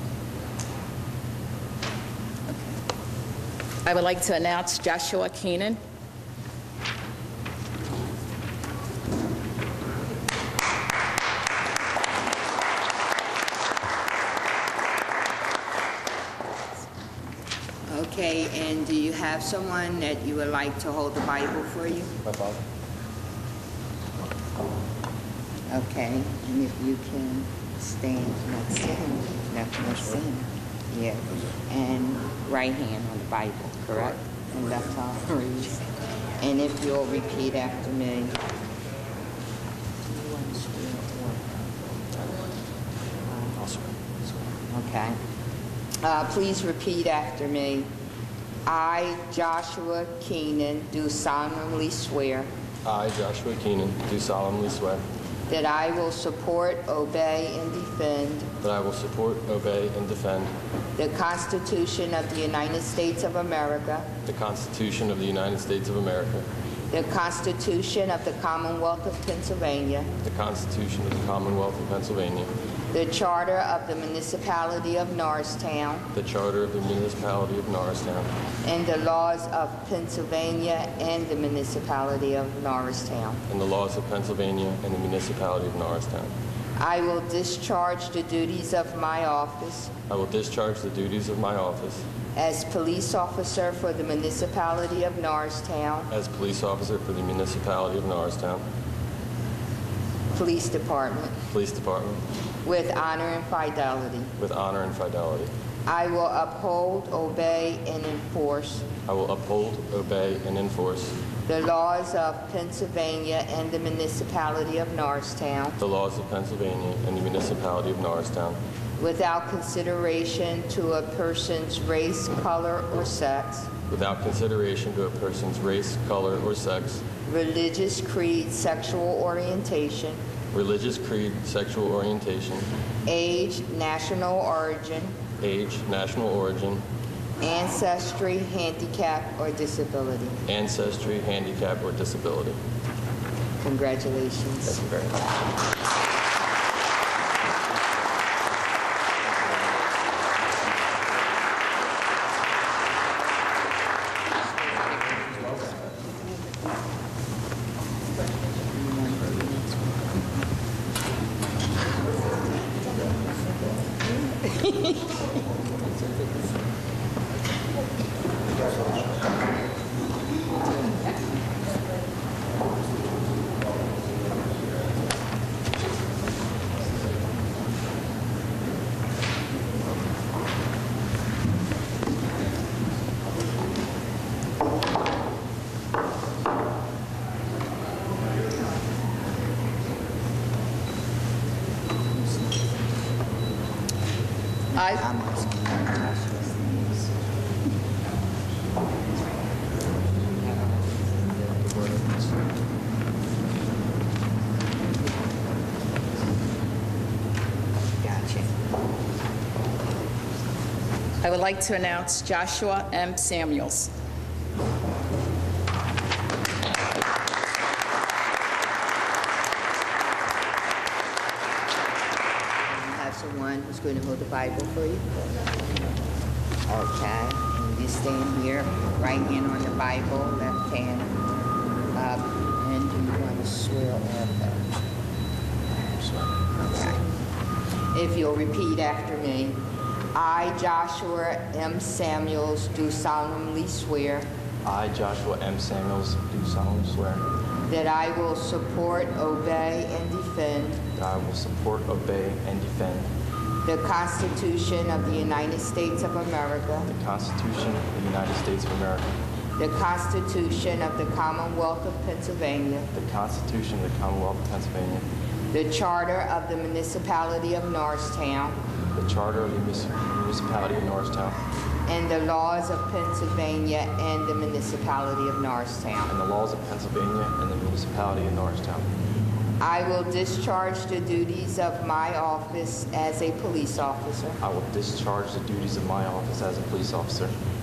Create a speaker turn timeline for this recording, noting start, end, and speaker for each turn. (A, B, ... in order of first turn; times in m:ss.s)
0:02.5-0:02.7 A
0:03.8-0:05.8 A
0:17.9-0:22.1 B
0:22.3-0:22.6 C
0:25.7-0:35.9 B
0:36.4-0:38.4 B
0:40.0-0:41.6 B
0:43.3-0:43.5 B
0:43.6-0:43.9 C
0:44.7-0:45.2 B
0:46.0-0:47.9 B
0:48.6-0:52.5 B
0:52.8-0:55.0 C
0:55.5-0:58.5 B
0:58.6-1:00.5 C
1:01.0-1:04.1 B
1:04.2-1:06.5 C
1:06.9-1:10.1 B
1:10.2-1:12.5 C
1:12.9-1:16.1 B
1:16.1-1:18.3 C
1:18.6-1:23.4 B
1:23.5-1:26.3 C
1:26.8-1:29.9 B
1:30.1-1:32.0 C
1:32.3-1:36.1 B
1:36.1-1:38.6 C
1:40.3-1:41.4 B
1:41.5-1:42.2 C
1:42.6-1:44.3 B
1:44.4-1:45.5 C
1:45.8-1:48.9 B
1:49.0-1:51.2 C
1:51.4-1:55.8 B
1:55.8-1:58.6 C
1:59.0-2:03.7 B
2:03.9-2:07.0 C
2:07.2-2:10.2 B
2:10.5-2:12.7 C
2:13.0-2:15.1 B
2:15.4-2:16.8 C
2:17.4-2:20.4 B
2:20.4-2:22.6 C
2:23.6-2:24.8 B
2:24.7-2:25.1 C
2:38.7-2:40.1 B
2:44.4-2:45.0 B
3:14.7-3:17.0 B
3:14.7-3:15.1 A
3:20.4-3:20.8 B
3:21.5-3:22.2 B
3:28.0-3:28.5 B
3:31.2-3:33.9 A
3:42.6-3:45.1 B
3:46.7-3:51.1 B
3:51.9-3:54.6 B
3:55.9-3:56.4 D
3:56.7-3:57.0 B
3:57.9-3:59.6 B
4:00.1-4:04.3 B
4:04.6-4:07.2 D
4:07.7-4:10.8 B
4:11.0-4:13.1 D
4:13.6-4:16.9 B
4:16.9-4:19.1 D
4:19.6-4:22.9 B
4:22.9-4:25.1 D
4:25.5-4:28.5 B
4:28.9-4:31.4 D
4:31.9-4:36.1 B
4:36.1-4:38.9 D
4:39.6-4:44.4 B
4:44.4-4:47.4 D